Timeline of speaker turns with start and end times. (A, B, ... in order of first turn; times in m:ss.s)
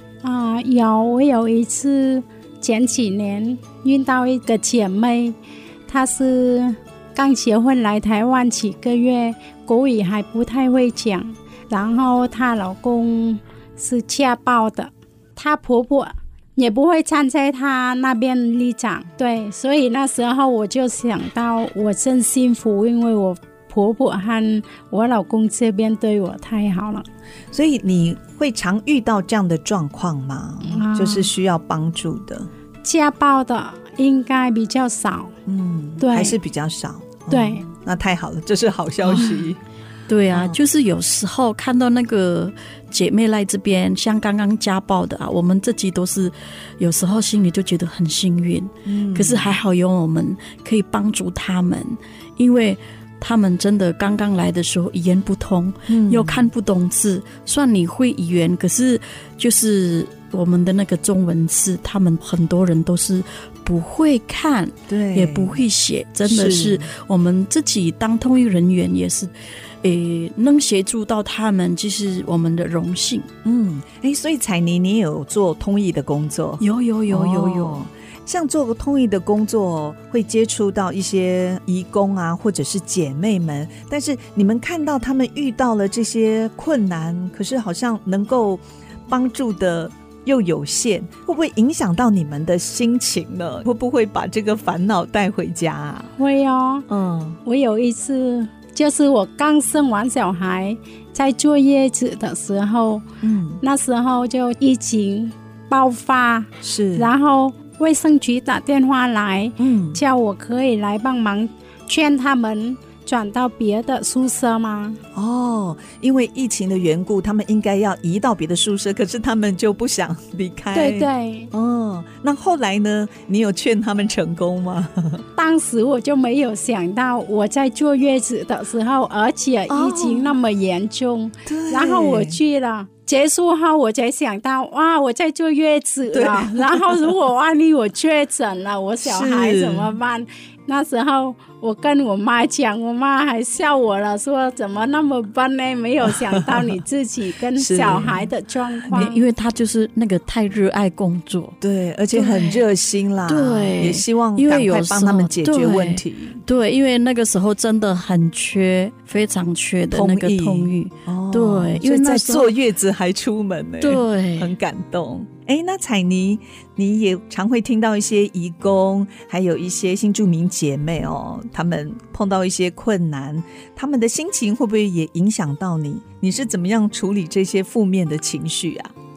0:00.2-0:05.4 A
0:05.9-0:27.0 A
0:27.5-0:32.5 B
0:30.6-0:31.3 A
0:32.8-0:35.3 A
0:35.4-0:39.6 B
0:36.0-0:36.4 A
0:37.3-0:37.6 A
0:39.1-0:39.3 C
0:40.1-1:09.3 C
0:40.3-0:40.6 B
0:48.8-0:49.6 B
0:55.9-0:56.5 B
1:04.9-1:05.6 B
1:06.2-1:06.9 B
1:09.8-1:13.3 C
1:13.4-1:36.1 B
1:16.6-1:17.8 C
1:36.2-1:36.9 A
1:36.9-1:37.4 B
1:37.4-1:43.0 A
1:43.2-1:43.6 B
1:43.6-1:55.0 A
1:46.6-1:47.1 B
1:49.6-1:50.0 B
1:55.1-2:05.2 B
2:00.7-2:01.5 A
2:05.4-2:29.2 A
2:09.7-2:10.3 B
2:11.4-2:12.4 B
2:16.1-2:17.1 B
2:19.0-2:20.0 B
2:26.3-2:26.8 B
2:27.6-2:28.3 B
2:28.9-2:31.5 C
2:31.6-2:36.4 B
2:32.1-2:32.6 C
2:33.2-2:42.5 C
2:39.9-2:58.9 B
2:43.8-2:44.5 C